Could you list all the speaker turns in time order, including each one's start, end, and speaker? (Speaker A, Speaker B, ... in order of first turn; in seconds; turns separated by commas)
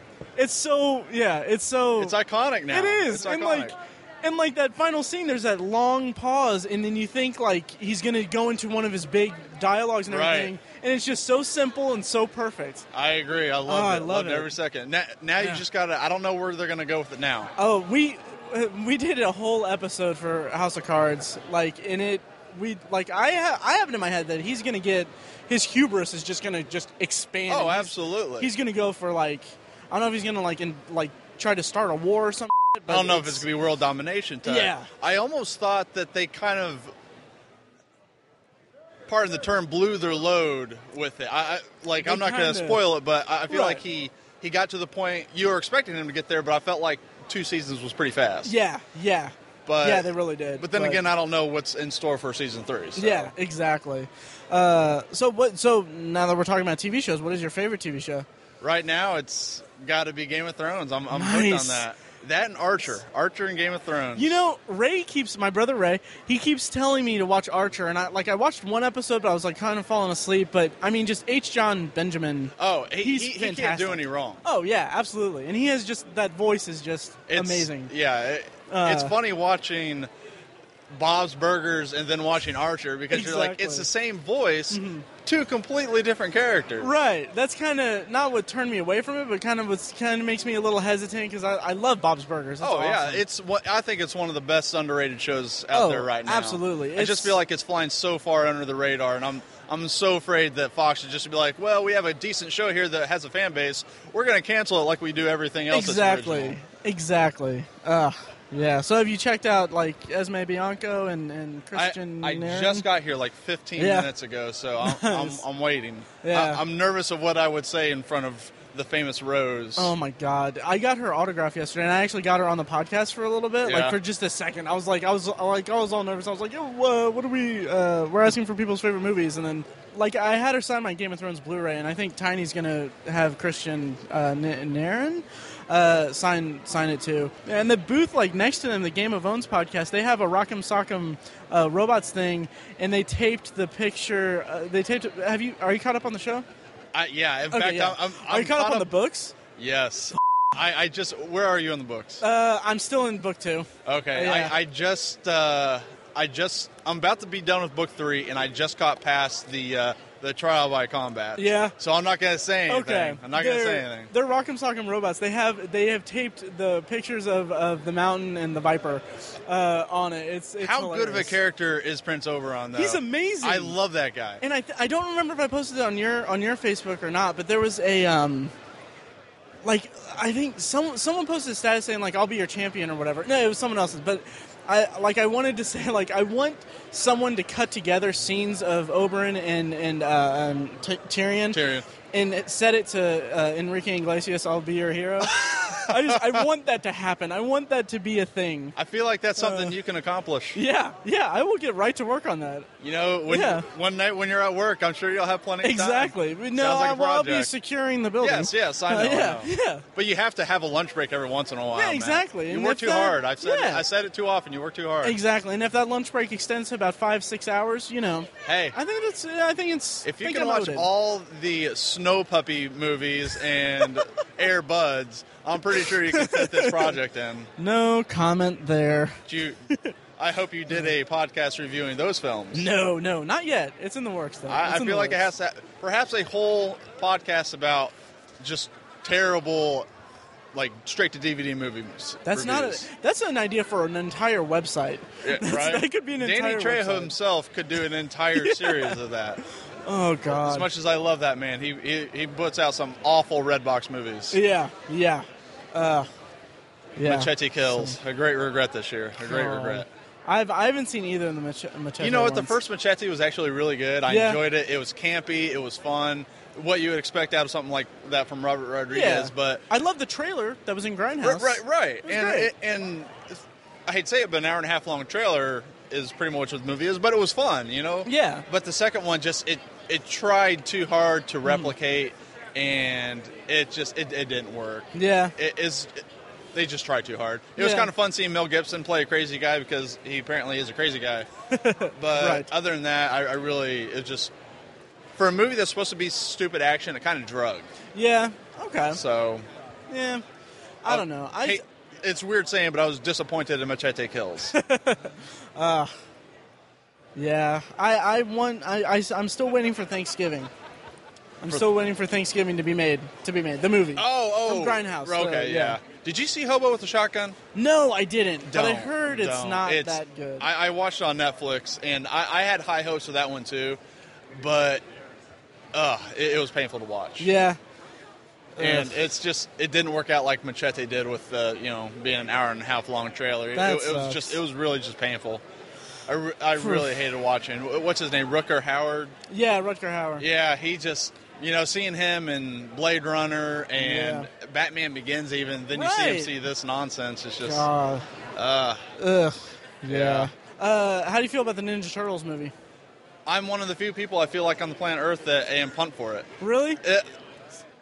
Speaker A: 0.4-2.2, Speaker B: 2.0-3.7, Speaker A: 2.7-12.9, Speaker B: 10.1-10.5, Speaker B: 12.9-17.5, Speaker A: 13.7-14.5, Speaker A: 17.6-33.5, Speaker B: 27.5-28.5, Speaker B: 32.9-36.9, Speaker A: 34.5-34.9, Speaker B: 39.1-48.5, Speaker A: 42.0-42.8, Speaker A: 43.5-43.8, Speaker A: 48.5-51.0, Speaker B: 49.7-53.3, Speaker A: 53.0-58.3, Speaker B: 58.6-64.4, Speaker A: 61.1-61.9, Speaker A: 64.2-77.9, Speaker B: 72.6-74.4, Speaker B: 77.3-80.1, Speaker A: 78.7-79.1, Speaker B: 80.9-86.9, Speaker A: 83.1-83.9, Speaker A: 84.7-85.1, Speaker A: 86.8-93.2, Speaker B: 92.6-106.6, Speaker A: 95.7-97.4, Speaker A: 105.7-112.9, Speaker B: 111.7-119.9, Speaker A: 113.8-114.1, Speaker A: 114.8-115.4, Speaker A: 116.2-116.6, Speaker A: 119.8-146.4, Speaker B: 123.6-124.0, Speaker B: 146.9-148.9, Speaker A: 147.5-149.3, Speaker B: 149.6-152.2, Speaker A: 152.2-154.6, Speaker B: 153.9-164.1, Speaker A: 161.4-161.7, Speaker A: 162.7-171.4, Speaker B: 170.6-174.4, Speaker A: 172.7-173.8, Speaker A: 174.4-178.5, Speaker A: 179.6-191.6, Speaker B: 191.5-191.9, Speaker A: 192.1-198.7, Speaker B: 195.2-196.4, Speaker B: 198.8-200.6, Speaker A: 199.4-199.7, Speaker A: 200.5-202.7, Speaker B: 202.8-207.5, Speaker A: 203.3-203.7, Speaker A: 205.6-209.8, Speaker B: 208.2-215.2, Speaker A: 211.7-213.8, Speaker A: 215.0-220.9, Speaker B: 218.4-218.8, Speaker B: 220.0-227.5, Speaker A: 225.9-226.9, Speaker A: 227.6-229.2, Speaker B: 229.3-229.6, Speaker B: 230.2-232.7, Speaker A: 232.5-235.2, Speaker B: 234.5-239.9, Speaker B: 240.5-242.9, Speaker A: 242.3-247.1, Speaker B: 245.2-249.4, Speaker A: 248.4-249.0, Speaker A: 249.9-250.7, Speaker B: 250.3-254.4, Speaker A: 254.3-256.1, Speaker A: 257.0-258.0, Speaker B: 257.0-259.9, Speaker A: 259.3-262.6, Speaker B: 262.0-269.6, Speaker A: 264.1-264.4, Speaker A: 268.9-272.5, Speaker B: 271.2-286.0, Speaker A: 278.1-278.4, Speaker A: 281.4-281.7, Speaker A: 284.9-285.3, Speaker B: 286.5-291.3, Speaker A: 287.6-287.9, Speaker A: 291.6-292.5, Speaker B: 292.0-294.3, Speaker B: 295.2-297.7, Speaker A: 297.9-299.0, Speaker B: 298.9-299.4, Speaker A: 299.9-300.2, Speaker A: 300.9-301.6, Speaker B: 300.9-304.5, Speaker A: 304.5-305.9, Speaker A: 307.2-310.5, Speaker A: 311.4-315.8, Speaker B: 313.9-317.4, Speaker A: 317.6-320.5, Speaker B: 318.5-323.8, Speaker B: 324.4-324.8, Speaker B: 325.7-327.3, Speaker A: 327.2-327.6, Speaker A: 328.6-328.9, Speaker B: 328.6-335.4, Speaker A: 333.6-334.4, Speaker B: 336.1-339.1, Speaker A: 336.6-336.9, Speaker A: 339.3-340.2, Speaker B: 340.2-347.7, Speaker A: 343.8-344.3, Speaker A: 345.7-346.3, Speaker A: 347.4-348.1, Speaker B: 348.4-348.8, Speaker A: 349.0-352.5, Speaker B: 349.9-350.3, Speaker B: 353.3-357.1, Speaker A: 356.4-356.8